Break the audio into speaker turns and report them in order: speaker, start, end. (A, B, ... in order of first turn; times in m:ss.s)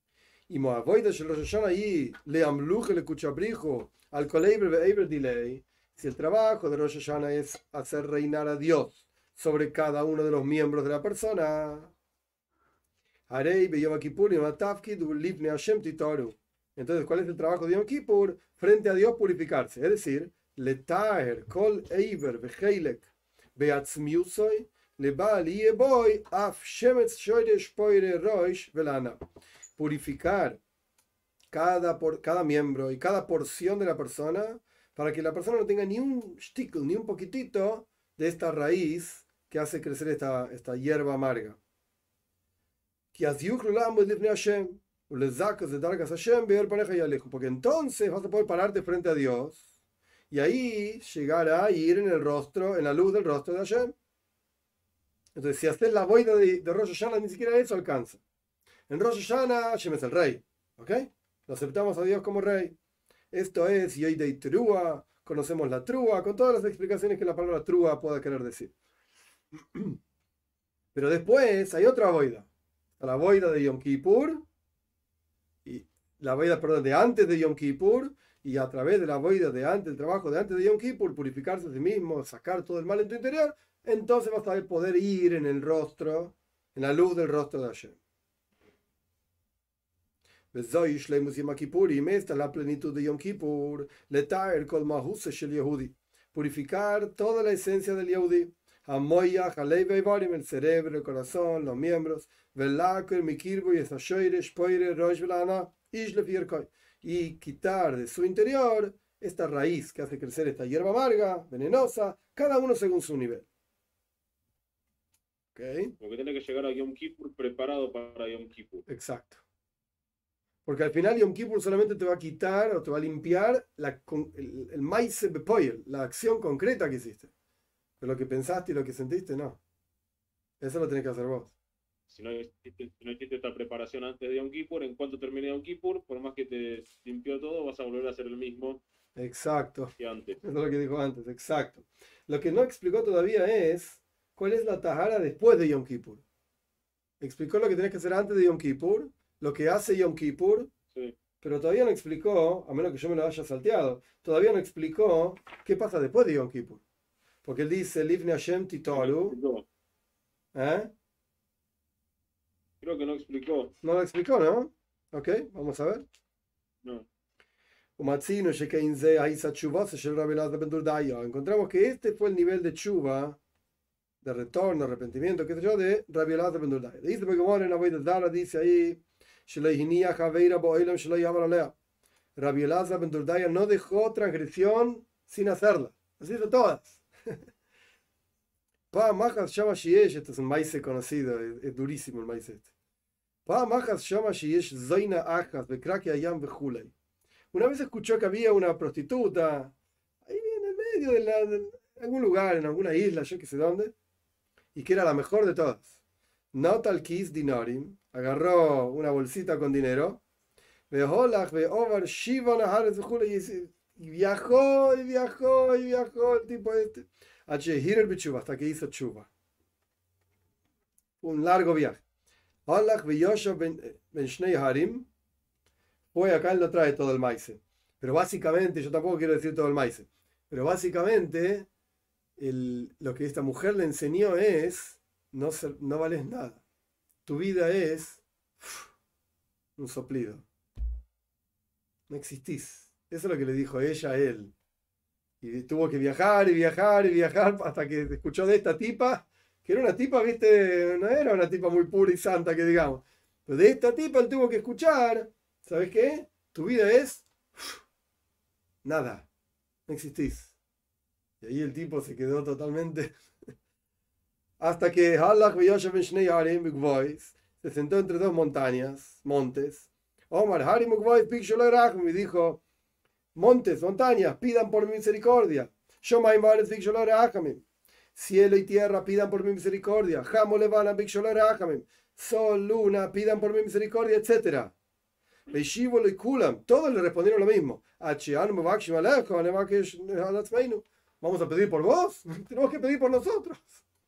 0:00.5-0:11.9 A
0:13.3-0:29.2 A
0:29.8-0:30.6 A
0:31.5-0:41.6 A
0:43.1-0:49.6 A
0:50.3-0:53.9 A
0:55.3-0:58.2 A
0:58.9-1:02.7 A
1:03.3-1:08.7 A
1:10.9-1:14.4 A
1:15.6-1:28.0 A
1:30.5-1:53.4 A
1:55.5-1:55.9 A
1:56.0-1:58.8 B
1:58.9-1:59.4 A
2:00.6-2:07.3 A
2:08.0-2:09.6 A
2:10.6-2:11.5 A
2:12.1-2:18.8 B
2:19.2-2:26.2 A
2:20.0-2:20.4 B
2:27.2-2:30.7 A
2:31.4-2:36.8 A
2:37.4-2:39.4 A
2:38.9-2:39.6 B
2:40.5-2:40.9 A
2:42.8-2:43.7 B
2:43.8-2:46.0 A
2:48.0-2:53.4 A
2:54.2-3:01.7 A
3:02.4-3:07.0 A
3:08.9-3:12.6 A
3:13.4-3:16.9 A
3:17.5-3:19.7 A
3:20.2-3:23.9 A
3:24.7-3:25.9 A
3:26.5-3:30.2 A
3:30.9-3:39.3 A
3:41.2-3:42.0 A
3:42.7-3:45.1 A
3:46.1-3:51.7 A
3:52.4-3:56.6 A
3:57.2-3:58.8 A
3:59.8-4:00.4 A
4:02.1-4:04.5 A
4:05.4-4:17.8 A
4:18.8-4:19.2 A
4:19.9-4:20.5 A
4:21.4-4:23.1 A
4:24.6-4:32.6 A
4:33.3-4:37.6 A
4:38.1-4:44.7 A
4:45.5-4:53.8 A